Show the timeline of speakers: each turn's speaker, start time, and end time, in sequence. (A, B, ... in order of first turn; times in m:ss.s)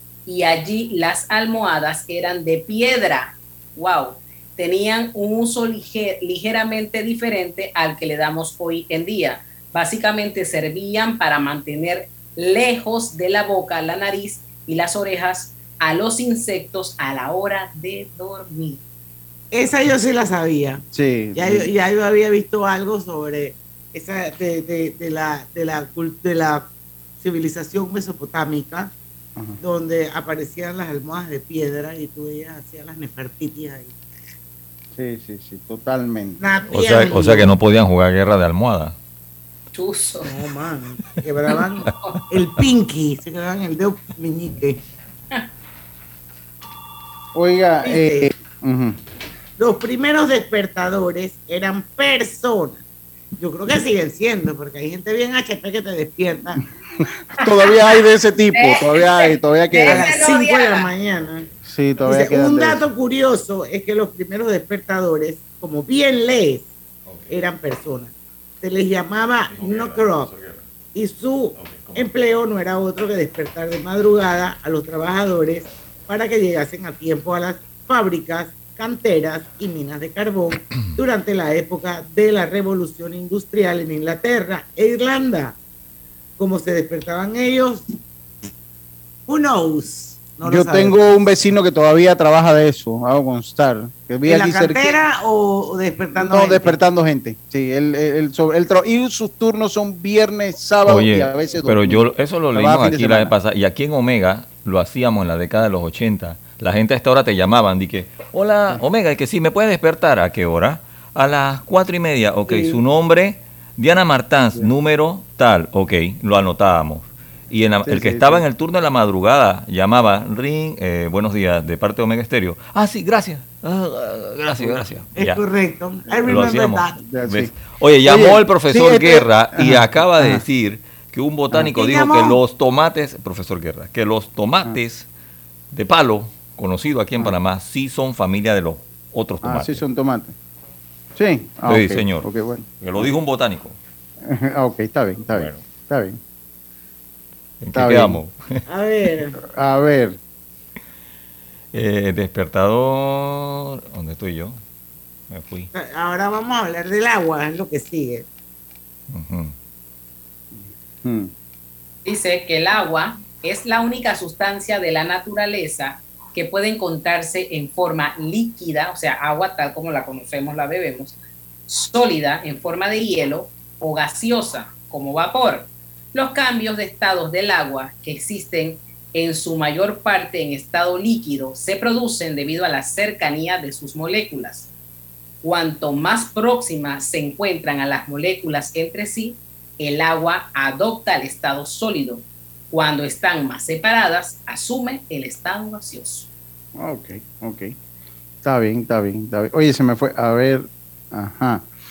0:00.2-0:18.8 A
0:19.5-0:26.7 B
0:20.9-0:21.7 C
0:27.2-0:28.9 B
0:29.6-0:34.0 B
0:35.0-0:36.4 C
0:36.4-0:37.5 B
0:36.7-0:39.0 D
0:39.7-0:40.3 A
0:40.2-0:44.8 B
0:47.3-0:49.0 C
0:47.8-0:48.3 B
0:49.6-0:52.8 B
0:53.4-0:56.6 B
0:57.4-1:00.2 C
0:57.4-0:58.0 A
0:58.5-1:00.9 A
0:59.9-1:01.5 B
1:01.6-1:02.8 C
1:02.0-1:06.7 B
1:07.3-1:10.3 B
1:09.6-1:10.6 D
1:10.9-1:25.6 B
1:11.6-1:12.0 D
1:26.4-1:27.8 B
1:29.3-1:31.0 B
1:30.4-1:35.0 C
1:34.2-1:36.8 B
1:36.2-1:43.3 C
1:40.9-2:05.4 D
1:57.9-1:58.4 C
2:05.2-2:07.0 B
2:06.2-2:10.4 C
2:06.3-2:15.1 D
2:11.7-2:12.4 B
2:15.7-2:19.8 D
2:19.4-2:20.3 C
2:21.2-2:23.1 C
2:21.7-2:22.3 D
2:22.8-2:23.8 D
2:24.2-2:26.2 C
2:25.3-2:25.6 D
2:27.6-2:28.6 D
2:27.7-2:28.2 C
2:28.6-2:29.4 B
2:29.4-2:30.2 C
2:31.7-2:34.6 D
2:35.3-2:35.7 D
2:35.7-2:38.2 B
2:39.1-2:39.5 D
2:40.5-2:41.3 C
2:42.0-2:51.2 A
2:51.7-3:04.7 A
3:05.4-3:16.3 A
3:16.8-3:17.7 C
3:18.4-3:21.7 C